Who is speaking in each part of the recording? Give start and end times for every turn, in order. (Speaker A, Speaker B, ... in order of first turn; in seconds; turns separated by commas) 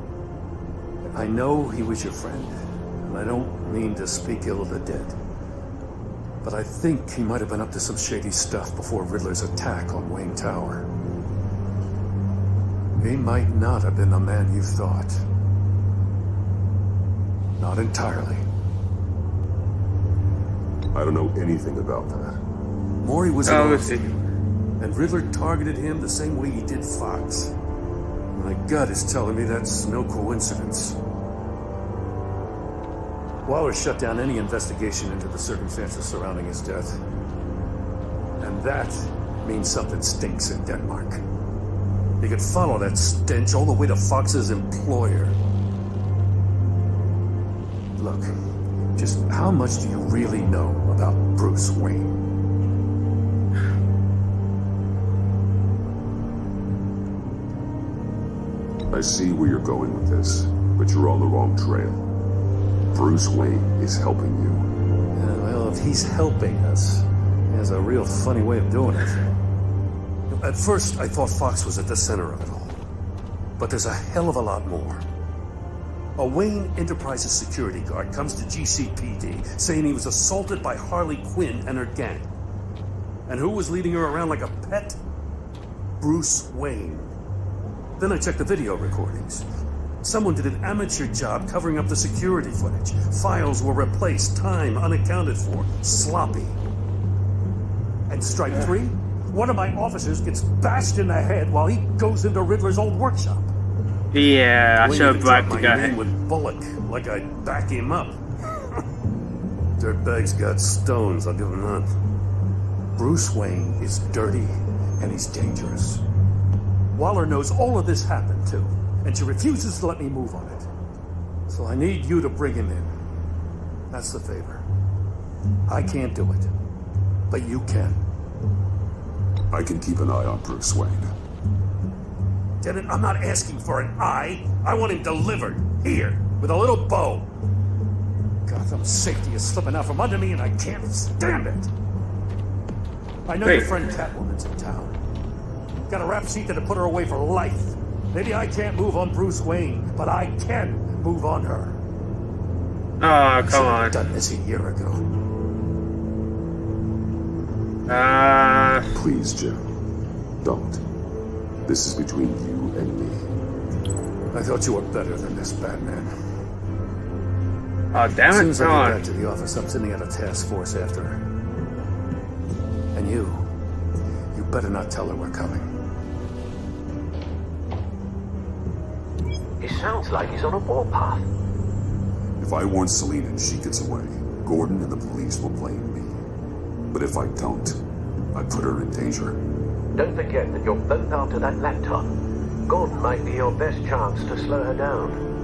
Speaker A: 1.1-5.2, Speaker A: 6.4-10.9, Speaker A: 13.0-15.2, Speaker A: 17.6-18.4, Speaker B: 20.9-22.4, Speaker A: 23.0-24.0, Speaker C: 23.4-24.1, Speaker A: 24.8-27.5, Speaker A: 28.3-31.0, Speaker A: 33.4-37.0, Speaker A: 38.4-41.2, Speaker A: 42.2-45.4, Speaker A: 48.0-48.4, Speaker A: 48.9-52.1, Speaker B: 58.9-62.0, Speaker B: 62.9-64.7, Speaker A: 65.1-69.3, Speaker A: 70.3-72.8, Speaker A: 73.6-75.0, Speaker A: 76.2-82.3, Speaker A: 83.3-85.0, Speaker A: 86.0-87.1, Speaker A: 88.0-89.5, Speaker A: 90.0-96.6, Speaker A: 98.1-103.5, Speaker C: 104.1-106.0, Speaker A: 104.8-108.7, Speaker A: 109.8-111.9, Speaker A: 113.0-116.0, Speaker A: 116.9-120.7, Speaker A: 121.5-123.0, Speaker A: 123.9-124.6, Speaker A: 125.7-126.5, Speaker A: 127.3-128.0, Speaker B: 129.5-131.1, Speaker A: 132.6-137.3, Speaker A: 138.4-141.7, Speaker A: 143.2-145.0, Speaker C: 143.4-143.9, Speaker A: 145.9-151.8, Speaker C: 153.0-154.0, Speaker A: 153.5-155.1, Speaker C: 157.9-158.8, Speaker B: 158.9-159.7, Speaker B: 160.4-160.8, Speaker B: 161.6-163.3, Speaker A: 164.3-166.1, Speaker C: 167.9-169.0, Speaker A: 168.3-171.2, Speaker A: 172.9-173.4, Speaker A: 174.3-175.7, Speaker D: 179.6-181.3, Speaker B: 182.4-186.2, Speaker B: 186.9-187.8, Speaker B: 188.3-189.4, Speaker D: 189.9-192.1, Speaker D: 192.7-195.2